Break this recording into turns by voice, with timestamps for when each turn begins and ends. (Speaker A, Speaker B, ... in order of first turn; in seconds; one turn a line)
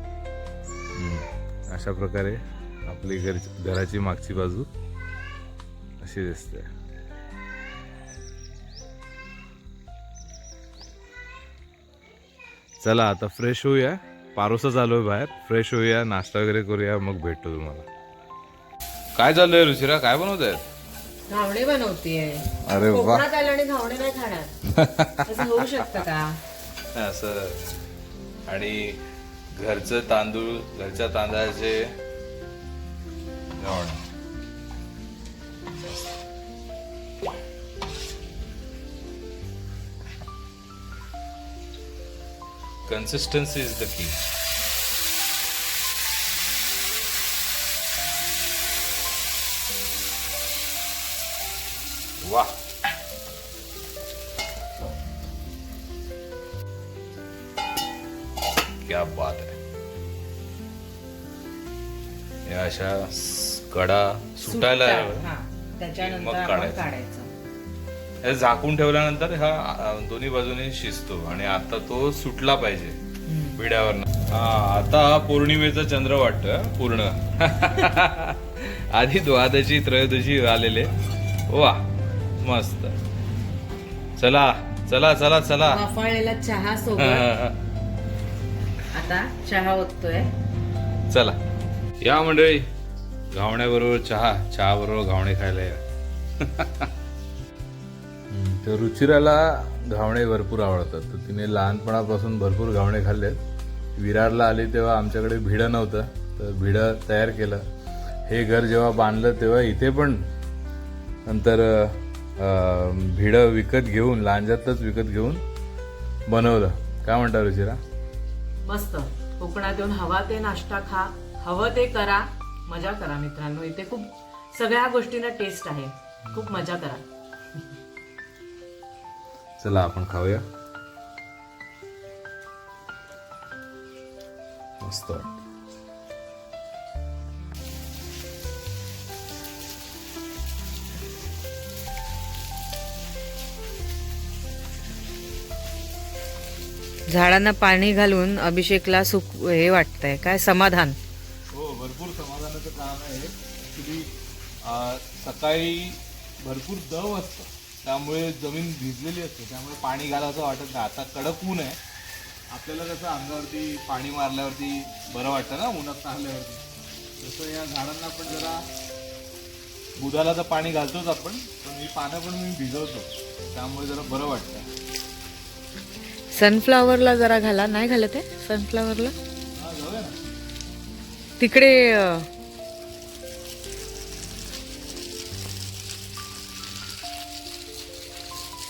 Speaker A: 0.9-4.7
Speaker A: 6.0-6.7
Speaker A: 12.8-17.9
Speaker A: 19.1-20.6
Speaker B: 21.3-24.5
Speaker A: 22.6-23.3
Speaker A: 24.7-25.9
Speaker B: 25.3-26.4
Speaker A: 26.9-27.6
Speaker A: 28.5-29.0
Speaker A: 29.6-31.9
Speaker A: 33.6-34.0
Speaker A: 42.9-44.2
Speaker A: 52.2-52.6
Speaker A: 58.8-59.5
Speaker A: 62.5-65.3
Speaker B: 64.4-67.3
Speaker A: 66.0-66.9
Speaker A: 68.2-73.0
Speaker B: 73.3-73.6
Speaker A: 73.5-80.9
Speaker A: 81.5-81.9
Speaker A: 82.4-83.0
Speaker A: 84.2-85.8
Speaker B: 85.7-87.3
Speaker A: 87.0-87.6
Speaker B: 88.9-90.3
Speaker A: 91.1-91.4
Speaker A: 92.0-92.7
Speaker A: 93.3-95.8
Speaker A: 96.4-96.9
Speaker A: 98.3-103.4
Speaker A: 104.0-107.6
Speaker A: 108.3-110.3
Speaker A: 111.3-115.4
Speaker A: 116.3-117.8
Speaker B: 118.7-127.0
Speaker A: 126.3-126.5
Speaker A: 129.6-130.4
Speaker A: 134.8-135.4
Speaker B: 147.1-151.0
Speaker A: 151.5-154.1
Speaker A: 154.6-161.8
Speaker A: 162.5-166.7
Speaker A: 167.2-168.7
Speaker A: 170.0-174.7
Speaker B: 176.3-179.1
Speaker A: 179.6-180.2
Speaker B: 181.4-182.3